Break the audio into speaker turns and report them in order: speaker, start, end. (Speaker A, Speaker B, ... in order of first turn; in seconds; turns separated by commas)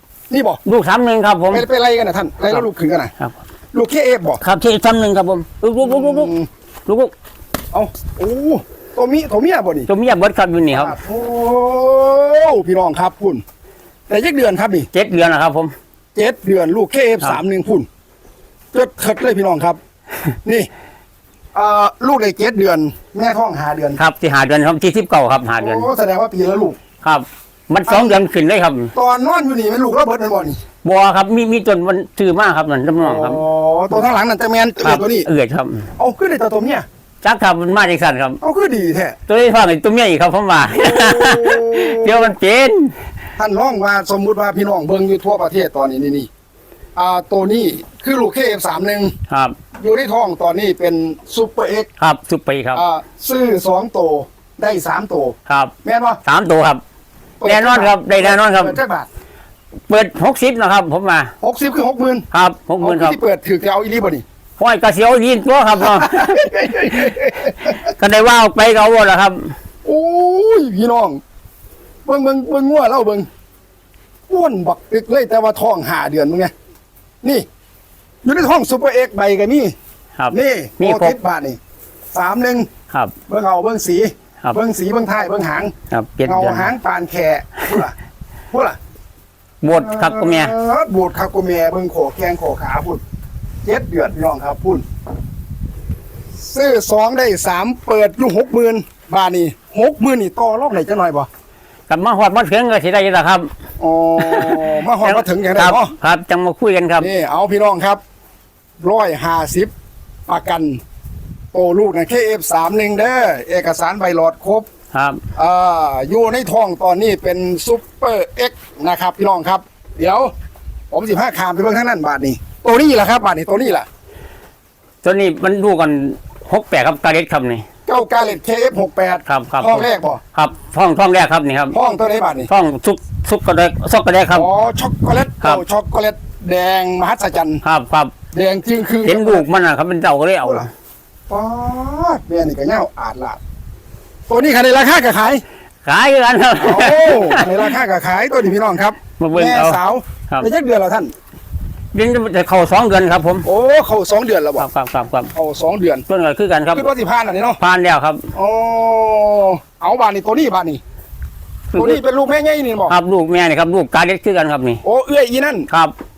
Speaker A: 0.3-0.6, Speaker B: 0.7-1.6, Speaker A: 1.5-3.1, Speaker A: 3.7-4.4, Speaker B: 4.4-6.3, Speaker A: 5.8-6.5, Speaker B: 6.9-7.1, Speaker A: 7.7-9.9, Speaker B: 9.9-10.9, Speaker A: 10.7-13.4, Speaker A: 14.1-14.9, Speaker B: 14.9-15.7, Speaker A: 16.1-17.9, Speaker A: 18.7-19.8, Speaker A: 21.5-24.0, Speaker B: 24.0-25.9, Speaker A: 25.6-26.8, Speaker B: 27.0-28.9, Speaker A: 27.9-28.2, Speaker A: 28.9-30.6, Speaker B: 30.8-33.4, Speaker A: 33.0-35.3, Speaker B: 34.8-35.9, Speaker A: 36.0-36.9, Speaker B: 37.2-38.4, Speaker A: 38.4-39.2, Speaker B: 39.3-42.9, Speaker A: 40.7-42.4, Speaker A: 43.4-46.3, Speaker A: 47.0-49.1, Speaker B: 49.3-49.6, Speaker A: 49.8-51.9, Speaker B: 52.0-52.8, Speaker A: 52.7-56.2, Speaker B: 55.5-55.7, Speaker B: 56.2-56.8, Speaker A: 57.4-59.1, Speaker B: 57.4-58.8, Speaker B: 59.9-61.3, Speaker A: 61.4-62.3, Speaker B: 62.3-63.2, Speaker A: 62.8-64.2, Speaker B: 64.6-66.7, Speaker A: 65.8-67.8, Speaker B: 67.9-69.5, Speaker A: 69.8-71.2, Speaker A: 72.1-73.3, Speaker A: 74.3-76.5, Speaker A: 78.2-79.8, Speaker B: 80.2-81.2, Speaker A: 80.3-81.6, Speaker A: 82.1-82.7, Speaker A: 83.3-85.7, Speaker B: 85.9-86.7, Speaker A: 86.2-87.9, Speaker A: 88.5-88.8, Speaker B: 89.6-90.5, Speaker A: 89.7-93.0, Speaker A: 93.7-94.8, Speaker A: 96.4-101.3, Speaker B: 101.9-103.5, Speaker A: 103.8-105.9, Speaker B: 104.2-107.1, Speaker A: 107.0-108.0, Speaker A: 108.8-109.7, Speaker A: 110.3-110.8, Speaker A: 111.5-114.7, Speaker B: 114.9-115.2, Speaker A: 115.3-120.3, Speaker A: 120.9-123.9, Speaker B: 125.0-127.7, Speaker A: 127.9-130.2, Speaker B: 129.3-131.8, Speaker A: 131.7-132.5, Speaker B: 132.5-134.5, Speaker A: 134.3-137.6, Speaker B: 137.6-138.1, Speaker A: 138.3-139.5, Speaker B: 139.0-140.7, Speaker A: 141.3-143.4, Speaker A: 144.3-145.4, Speaker B: 145.8-147.7, Speaker A: 146.6-151.1, Speaker B: 149.2-150.5, Speaker B: 151.9-153.4, Speaker A: 153.4-154.7, Speaker B: 154.6-155.3, Speaker A: 155.3-156.1, Speaker B: 156.1-156.9, Speaker A: 156.7-157.6, Speaker B: 157.6-158.3, Speaker A: 158.3-160.8, Speaker B: 161.7-162.0, Speaker A: 161.8-162.9, Speaker B: 162.9-164.8, Speaker A: 164.8-165.7, Speaker B: 165.7-165.9